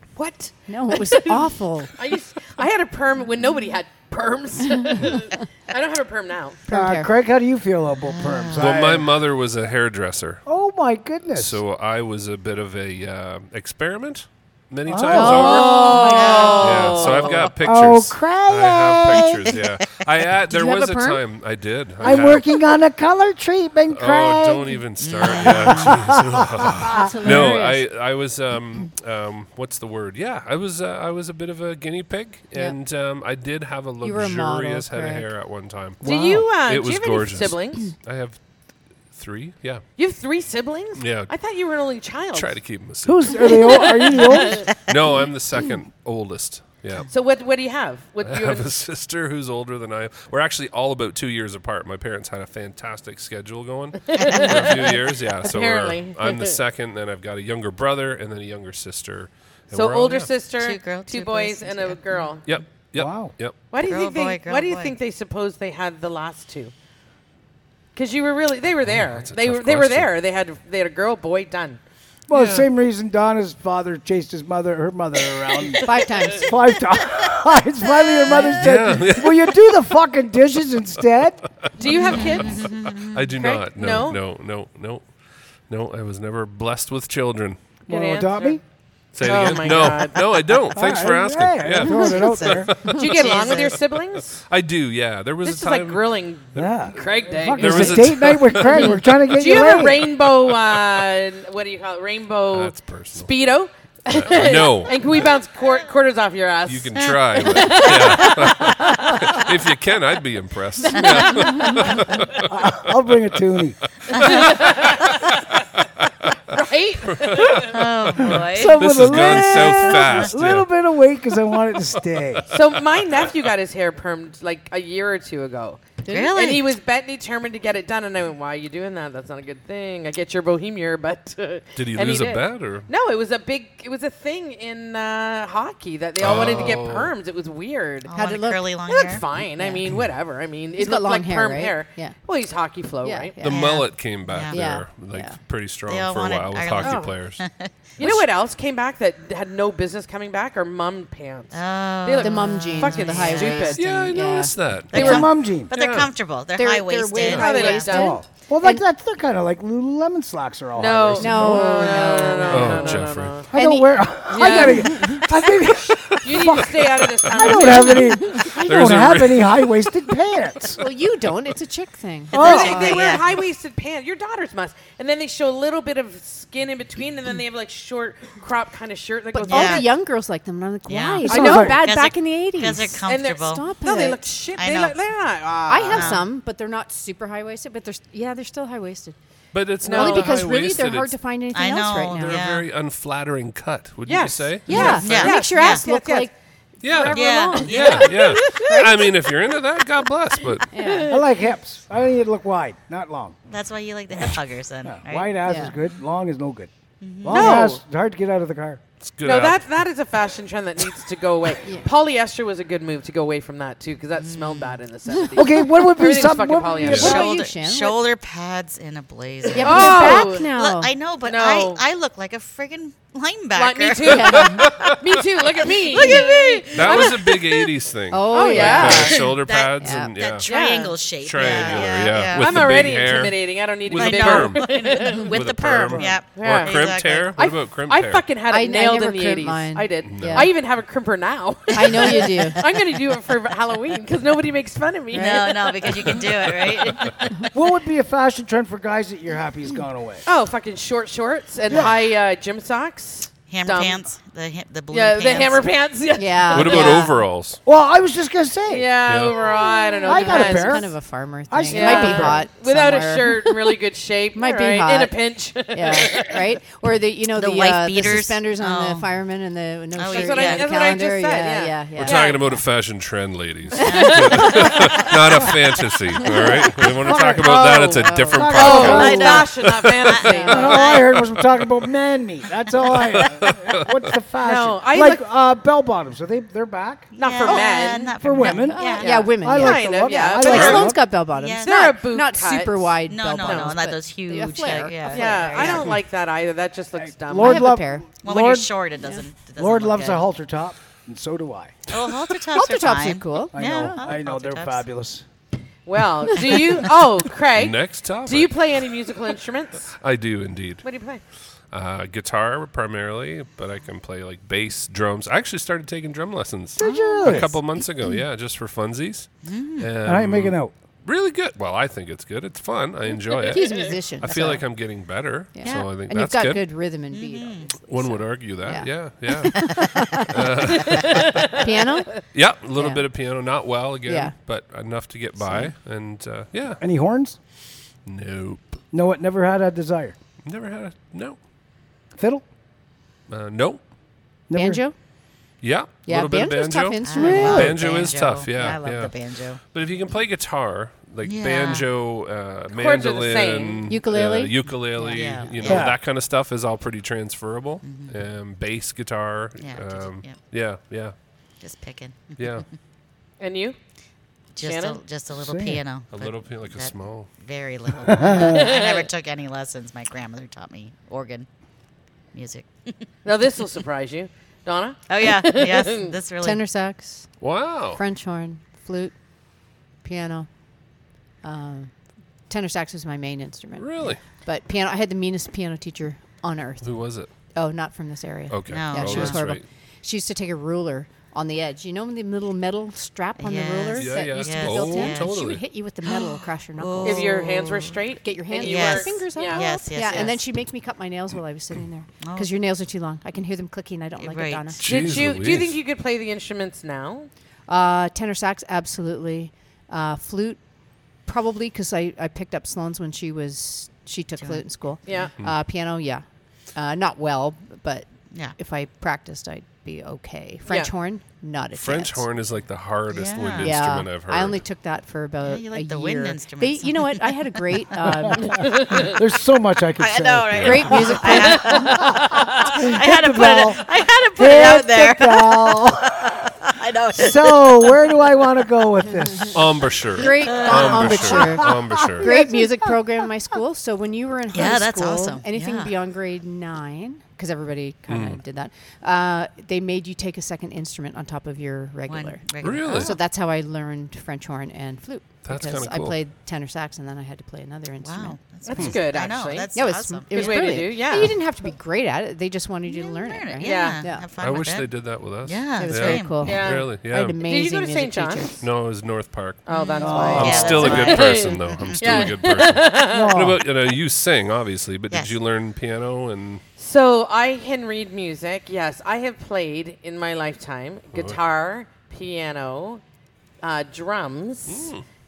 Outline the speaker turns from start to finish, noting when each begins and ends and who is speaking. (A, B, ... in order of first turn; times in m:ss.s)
0:00.2-0:06.6 A
0:00.7-0:01.9 B
0:06.7-0:09.2 C
0:06.7-0:07.1 B
0:08.0-0:08.8 D
0:08.6-0:10.4 E
0:10.4-0:11.6 C
0:11.3-0:15.9 E
0:14.9-0:15.7 C
0:15.1-0:16.8 B
0:15.2-0:17.5 A
0:15.8-0:17.4 D
0:16.5-0:22.6 E
0:17.6-0:19.6 C
0:20.5-0:21.2 B
0:22.0-0:24.8 C
0:23.9-0:38.4 E
0:25.0-0:26.1 D
0:25.4-0:27.4 C
0:26.9-0:27.8 B
0:34.0-0:35.3 B
0:36.0-0:36.5 C
0:36.0-0:37.9 A
0:39.1-0:39.8 E
0:40.0-0:42.6 A
0:41.0-0:41.3 E
0:42.3-0:44.2 E
0:43.0-0:44.7 C
0:43.4-0:44.7 A
0:44.8-0:47.1 E
0:47.1-0:48.7 A
0:48.2-1:00.3 E
0:54.1-0:56.6 A
0:54.2-0:54.9 D
0:59.7-1:02.4 A
1:00.6-1:02.3 D
1:02.4-1:03.6 E
1:03.0-1:03.3 C
1:03.7-1:06.7 A
1:03.8-1:05.0 D
1:07.9-1:11.8 A
1:08.8-1:10.1 E
1:12.3-1:21.4 C
1:12.3-1:12.7 E
1:15.8-1:16.6 B
1:18.5-1:19.8 E
1:21.8-1:22.7 A
1:22.0-1:25.1 E
1:22.1-1:23.3 D
1:23.4-1:24.2 A
1:25.7-1:27.6 E
1:27.9-1:28.6 A
1:27.9-1:28.6 C
1:29.1-1:33.0 E
1:29.2-1:30.3 A
1:30.7-1:32.8 C
1:31.9-1:33.8 D
1:32.8-1:34.4 A
1:34.5-1:36.8 E
1:35.4-1:38.2 A
1:36.6-1:40.1 C
1:37.6-1:40.5 E
1:39.3-1:49.1 A
1:42.5-1:43.3 E
1:44.1-1:45.4 E
1:46.7-1:53.0 E
1:47.4-1:49.2 D
1:51.0-1:51.3 D
1:51.0-1:51.6 A
1:51.3-1:51.7 B
1:51.8-1:53.8 C
1:54.1-1:55.1 E
1:54.2-1:55.3 A
1:56.0-1:56.4 E
1:56.5-1:57.7 A
1:57.1-2:00.7 E
1:57.7-2:00.0 D
1:58.2-2:02.4 C
2:01.9-2:03.3 E
2:02.5-2:18.1 A
2:06.0-2:06.4 B
2:06.1-2:06.6 D
2:11.8-2:12.9 E
2:16.2-2:17.1 E
2:18.1-2:19.2 D
2:18.1-2:18.6 B
2:18.9-2:23.4 A
2:19.6-2:19.8 B
2:20.8-2:22.2 B
2:23.0-2:23.8 B
2:23.4-2:27.4 E
2:23.4-2:24.6 D
2:24.5-2:25.4 B
2:25.9-2:27.9 D
2:26.8-2:27.1 A
2:28.0-2:28.3 E
2:28.0-2:33.8 A
2:31.5-2:33.8 D
2:32.2-2:35.3 B
2:33.8-2:36.1 E
2:34.9-2:38.0 D
2:34.9-2:35.7 C
2:36.5-2:38.8 B
2:37.1-2:38.2 A
2:37.9-2:41.9 C
2:40.7-2:43.5 A
2:41.2-2:43.9 B
2:41.8-2:42.7 D
2:42.5-2:43.4 E
2:43.4-2:50.8 C
2:44.3-2:45.4 A
2:44.4-2:45.1 B
2:46.1-2:48.5 A
2:47.2-2:50.1 E
2:50.8-2:53.1 B
2:52.3-2:53.3 D
2:52.3-2:59.9 A
2:52.4-2:52.8 C
2:59.3-3:04.3 B
2:59.5-2:59.8 D
3:00.9-3:03.6 D
3:01.2-3:01.8 C
3:01.3-3:01.7 A
3:03.0-3:06.2 A
3:04.6-3:05.0 D
3:05.7-3:09.1 B
3:05.8-3:06.2 D
3:09.5-3:11.1 E
3:09.8-3:10.4 A
3:09.8-3:12.4 B
3:11.5-3:12.7 D
3:12.1-3:15.3 E
3:14.0-3:16.3 A
3:14.7-3:19.0 B
3:14.7-3:15.8 D
3:16.8-3:20.7 E
3:17.1-3:18.1 D
3:17.5-3:18.7 A
3:20.5-3:21.2 A
3:20.7-3:21.1 B
3:21.1-3:23.4 C
3:23.5-3:25.6 D
3:24.8-3:26.7 C
3:25.4-3:25.7 B
3:27.0-3:27.6 D
3:27.2-3:28.8 C
3:27.3-3:27.8 A
3:29.0-3:29.6 E
3:29.2-3:37.2 A
3:34.2-3:34.8 D
3:35.3-3:37.2 C
3:36.8-3:37.2 E
3:36.9-3:44.6 D
3:37.0-3:38.0 B
3:39.5-3:40.5 A
3:39.5-3:40.9 B
3:41.2-3:41.8 A
3:43.5-3:47.5 A
3:44.1-3:44.6 B
3:44.3-3:45.0 E
3:45.9-3:47.3 D
3:46.0-3:46.6 B
3:46.7-3:50.5 E
3:48.1-3:50.1 B
3:48.3-3:49.4 A
3:49.4-3:53.1 D
3:50.4-3:55.4 A
3:51.2-3:58.2 E
3:53.9-3:57.4 D
3:55.9-3:56.2 C
3:56.3-4:06.2 A
3:58.5-4:00.5 B
4:00.0-4:00.4 E
4:01.7-4:02.6 B
4:01.9-4:02.7 D
4:05.1-4:07.5 D
4:07.5-4:10.2 C
4:10.2-4:14.0 A
4:13.5-4:15.6 D
4:14.9-4:17.1 A
4:16.2-4:17.2 B
4:16.5-4:17.6 E
4:17.6-4:18.9 C
4:18.7-4:20.9 A
4:19.1-4:19.4 E
4:19.3-4:23.7 B
4:20.0-4:20.9 C
4:21.5-4:22.4 C
4:21.7-4:26.4 A
4:24.3-4:25.1 B
4:25.7-4:32.2 B
4:27.3-4:29.1 D
4:29.9-4:31.0 D
4:30.1-4:32.4 A
4:32.0-4:41.6 E
4:33.7-4:35.0 D
4:34.0-4:34.8 B
4:34.3-4:34.6 A
4:36.2-4:39.4 B
4:36.8-4:39.5 C
4:38.5-4:41.0 A
4:38.6-4:41.2 D
4:40.2-4:40.8 B
4:40.5-4:47.1 C
4:42.8-4:44.1 E
4:44.4-4:45.2 A
4:47.2-4:50.9 A
4:47.2-4:49.3 D
4:48.2-4:51.0 C
4:48.5-4:55.0 B
4:50.5-4:50.9 E
4:50.5-4:51.9 D
4:51.6-4:53.8 A
4:53.0-4:55.9 D
4:55.0-4:57.7 A
4:55.1-4:55.9 C
4:57.0-4:58.7 C
4:57.4-4:58.0 B
4:58.2-5:00.2 D
4:59.6-5:01.8 C
5:01.9-5:04.8 D
5:02.5-5:04.0 B
5:03.5-5:05.2 C
5:05.8-5:09.9 A
5:07.6-5:08.5 E
5:10.0-5:10.8 E
5:10.8-5:11.2 A
5:11.7-5:26.7 E
5:16.8-5:17.5 C
5:16.8-5:17.5 B
5:19.4-5:19.9 D
5:20.0-5:20.7 C
5:23.4-5:24.7 B
5:25.5-5:30.5 B
5:25.6-5:25.9 D
5:27.1-5:27.8 D
5:27.8-5:31.6 E
5:29.5-5:30.3 D
5:30.7-5:31.7 A
5:31.2-5:32.2 B
5:32.2-5:36.8 E
5:32.8-5:33.0 B
5:34.0-5:34.3 B
5:36.8-5:37.4 C
5:38.0-5:38.8 E
5:38.9-5:40.2 C
5:40.4-5:41.4 E
5:42.1-5:42.4 C
5:43.3-5:43.8 E
5:44.5-5:44.8 C
5:44.5-5:44.9 B
5:45.6-6:01.1 E
5:46.0-5:47.8 B
5:47.0-5:49.6 D
5:51.2-5:51.9 D
5:52.7-5:53.9 A
5:53.9-5:55.2 B
5:55.0-5:55.9 D
5:55.6-5:56.0 C
5:57.8-5:58.1 D
5:59.6-6:00.4 D
6:01.6-6:02.7 D
6:02.4-6:02.6 E
6:03.4-6:03.8 A
6:04.5-6:11.5 D
6:04.6-6:05.0 A
6:05.3-6:05.8 C
6:06.1-6:07.3 E
6:08.1-6:08.6 C
6:08.3-6:09.1 A
6:12.3-6:13.1 D
6:13.2-6:16.1 A
6:15.1-6:16.6 D
6:16.4-6:17.3 B
6:17.4-6:18.0 E
6:18.0-6:19.1 B
6:20.0-6:20.5 B
6:21.4-6:21.9 B
6:22.5-6:26.9 B
6:23.8-6:24.2 E
6:26.8-6:27.3 E
6:27.5-6:37.6 B
6:28.5-6:29.6 E
6:28.7-6:29.6 D
6:33.4-6:38.0 D
6:34.0-6:35.6 E
6:37.0-6:39.7 A
6:38.2-6:44.8 B
6:38.6-6:40.4 D
6:42.2-6:42.5 D
6:44.2-6:45.1 D
6:44.8-6:45.8 E
6:44.8-6:47.3 A
6:47.7-6:50.6 B
6:51.2-6:56.2 B
6:54.4-6:54.6 D
6:55.0-6:55.3 A
6:56.7-7:02.3 B
7:01.8-7:04.6 E
7:03.1-7:03.8 D
7:03.6-7:08.7 B
7:05.4-7:07.4 D
7:08.4-7:16.2 C
7:08.5-7:09.2 A
7:10.0-7:18.3 D
7:10.6-7:12.0 B
7:11.7-7:12.5 A
7:17.1-7:19.7 C
7:19.5-7:22.3 E
7:20.1-7:38.4 B
7:20.3-7:21.6 D
7:21.6-7:22.9 C
7:24.5-7:25.9 D
7:28.1-7:28.4 E
7:32.1-7:33.2 D
7:32.6-7:33.2 E
7:35.4-7:36.2 E
7:38.0-7:40.8 D
7:38.6-7:39.7 A
7:39.7-7:44.2 B
7:40.3-7:41.4 A
7:42.8-7:46.6 D
7:43.6-7:44.0 A
7:44.4-7:47.4 E
7:45.8-7:48.6 B
7:46.4-7:46.9 A
7:47.4-7:48.6 A
7:48.6-7:49.6 E
7:49.6-7:53.4 A
7:49.7-7:52.3 D
7:50.0-7:51.0 C
7:50.0-7:51.1 B
7:50.3-7:56.6 E
7:53.0-7:53.6 C
7:55.1-7:55.4 D
7:56.8-8:03.0 A
8:01.1-8:01.4 E
8:03.6-8:04.9 A
8:04.7-8:05.0 E